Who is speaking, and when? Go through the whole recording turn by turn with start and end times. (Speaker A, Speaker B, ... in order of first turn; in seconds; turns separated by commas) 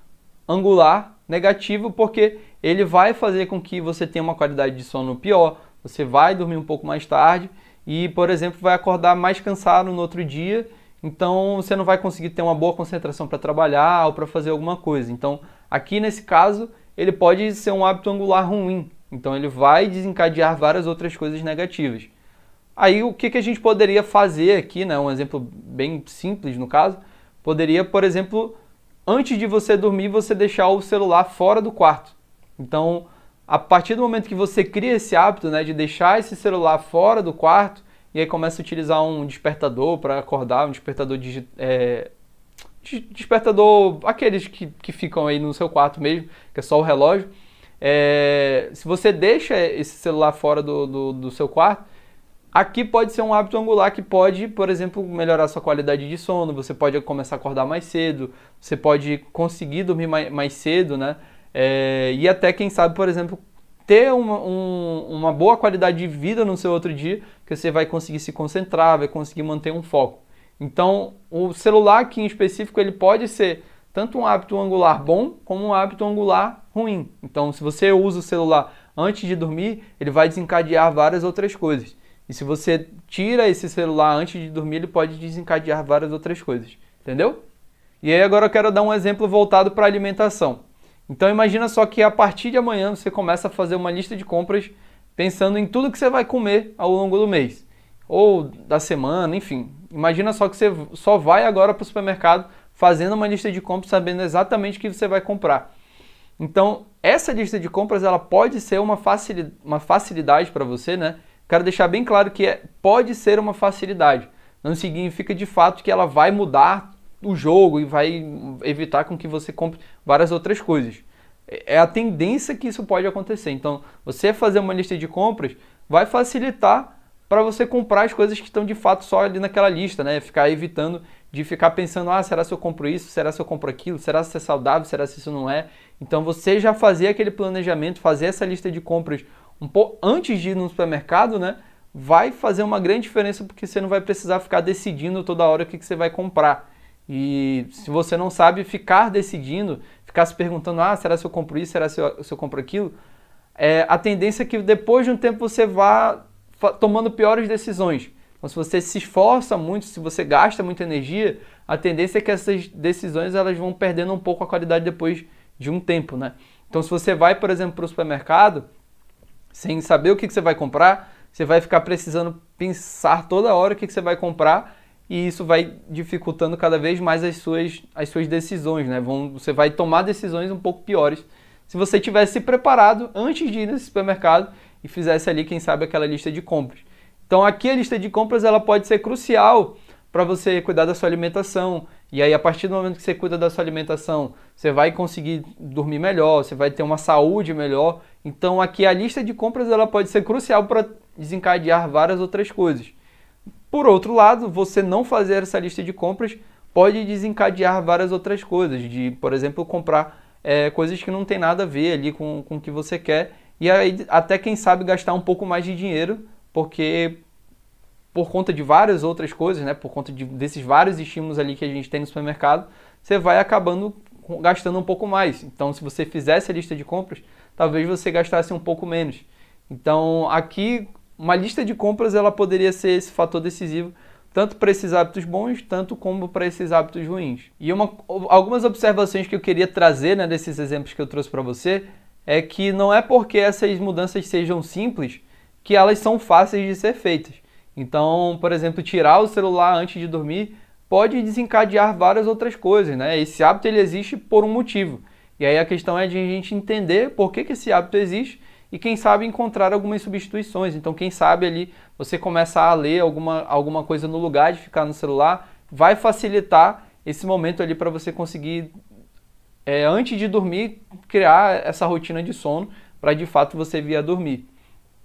Speaker A: 0.5-22.1, Speaker A: 22.8-42.1, Speaker A: 42.8-47.3, Speaker A: 47.8-51.8, Speaker A: 52.5-87.4, Speaker A: 88.0-105.7, Speaker A: 106.4-152.9, Speaker A: 153.6-168.6, Speaker A: 169.5-202.9, Speaker A: 203.7-217.2, Speaker A: 218.1-268.7, Speaker A: 269.6-274.5